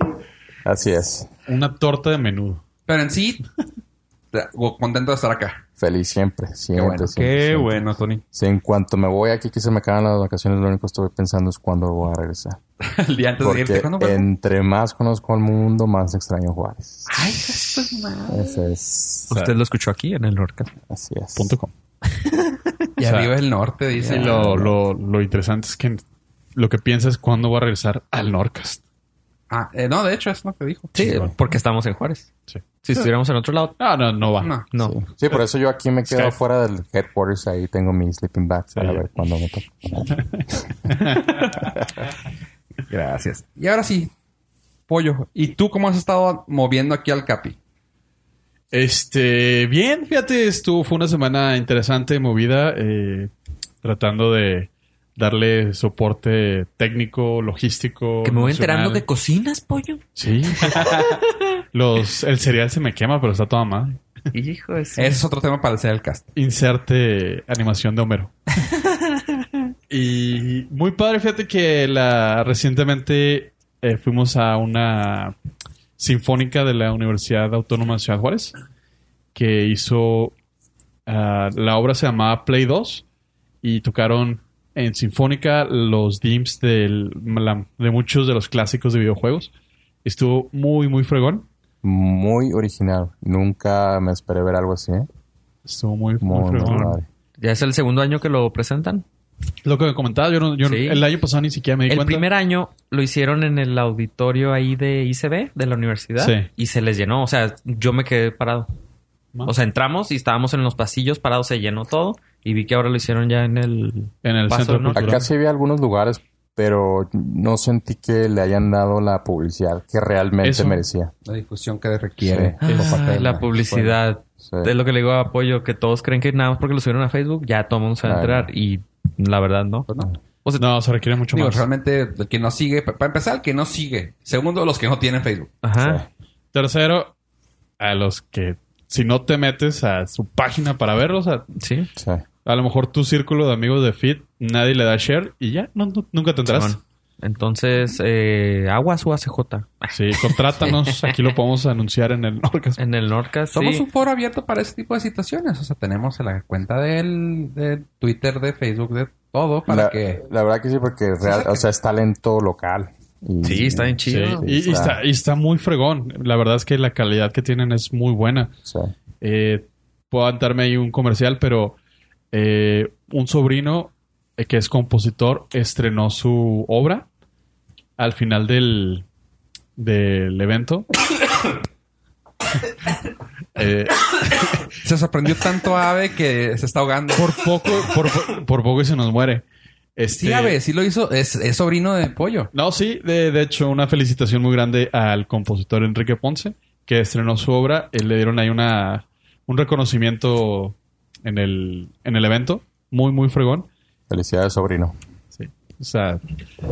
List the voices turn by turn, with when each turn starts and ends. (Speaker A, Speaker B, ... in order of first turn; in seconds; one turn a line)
Speaker A: 0.7-1.3
Speaker B: 1.5-2.6
Speaker C: 2.9-3.4
Speaker C: 4.3-5.6
Speaker A: 5.8-7.8
Speaker C: 6.8-8.2
Speaker A: 8.3-12.6
Speaker C: 12.8-14.3
Speaker A: 13.4-17.1
Speaker C: 17.1-18.5
Speaker A: 18.3-19.3
Speaker D: 19.3-20.7
Speaker A: 20.9-21.6
Speaker B: 21.4-21.7
Speaker D: 22.1-22.8
Speaker C: 23.0-24.5
Speaker B: 23.0-23.3
Speaker A: 24.1-24.8
Speaker B: 24.1-26.0
Speaker B: 26.6-28.8
Speaker C: 29.5-30.9
Speaker D: 30.9-32.3
Speaker B: 31.0-31.3
Speaker B: 32.5-33.0
Speaker D: 32.8-33.8
Speaker B: 33.8-34.5
Speaker C: 34.4-34.7
Speaker D: 34.7-35.0
Speaker A: 34.8-40.9
Speaker B: 36.1-36.3
Speaker B: 38.8-39.0
Speaker B: 40.9-41.4
Speaker C: 42.9-44.1
Speaker C: 44.9-47.6
Speaker B: 48.7-53.3
Speaker B: 53.8-59.0
Speaker D: 58.2-60.0
Speaker B: 60.2-61.1
Speaker D: 60.6-61.4
Speaker B: 61.7-64.0
Speaker D: 64.3-65.2
Speaker C: 65.0-66.3
Speaker B: 66.4-68.3
Speaker D: 68.8-69.2
Speaker B: 69.9-75.3
Speaker B: 76.0-78.5
Speaker B: 79.3-80.3
Speaker B: 81.1-83.0
Speaker B: 83.6-89.5
Speaker B: 90.0-91.5
Speaker A: 91.8-95.1
Speaker B: 95.7-97.0
Speaker A: 96.2-97.1
Speaker D: 97.4-99.0
Speaker B: 99.6-102.3
Speaker D: 100.6-101.0
Speaker D: 101.9-108.7
Speaker B: 106.2-106.5
Speaker D: 109.5-115.2
Speaker B: 114.2-115.3
Speaker A: 114.9-121.1
Speaker B: 120.4-120.8
Speaker C: 121.2-122.8
Speaker A: 122.2-124.7
Speaker D: 122.6-129.9
Speaker B: 122.7-123.0
Speaker A: 128.0-128.5
Speaker B: 130.6-131.7
Speaker C: 131.3-135.5
Speaker D: 135.6-136.0
Speaker A: 135.8-136.1
Speaker B: 136.5-137.1
Speaker B: 137.8-141.5
Speaker D: 141.5-141.9
Speaker A: 142.0-142.2
Speaker B: 142.4-146.8
Speaker D: 146.5-151.2
Speaker B: 149.9-152.8
Speaker D: 152.8-153.8
Speaker C: 153.5-160.2
Speaker A: 159.7-165.0
Speaker C: 161.2-161.7
Speaker D: 163.4-164.5
Speaker B: 164.1-168.5
Speaker A: 168.7-168.9
Speaker B: 169.2-171.8
Speaker B: 172.3-177.1
Speaker B: 178.0-179.1
Speaker B: 179.8-180.9
Speaker B: 183.6-184.7
Speaker C: 184.8-187.8
Speaker B: 187.2-189.4
Speaker B: 190.0-190.6
Speaker C: 190.2-192.5
Speaker B: 192.5-203.7
Speaker A: 204.1-204.9
Speaker B: 205.3-206.2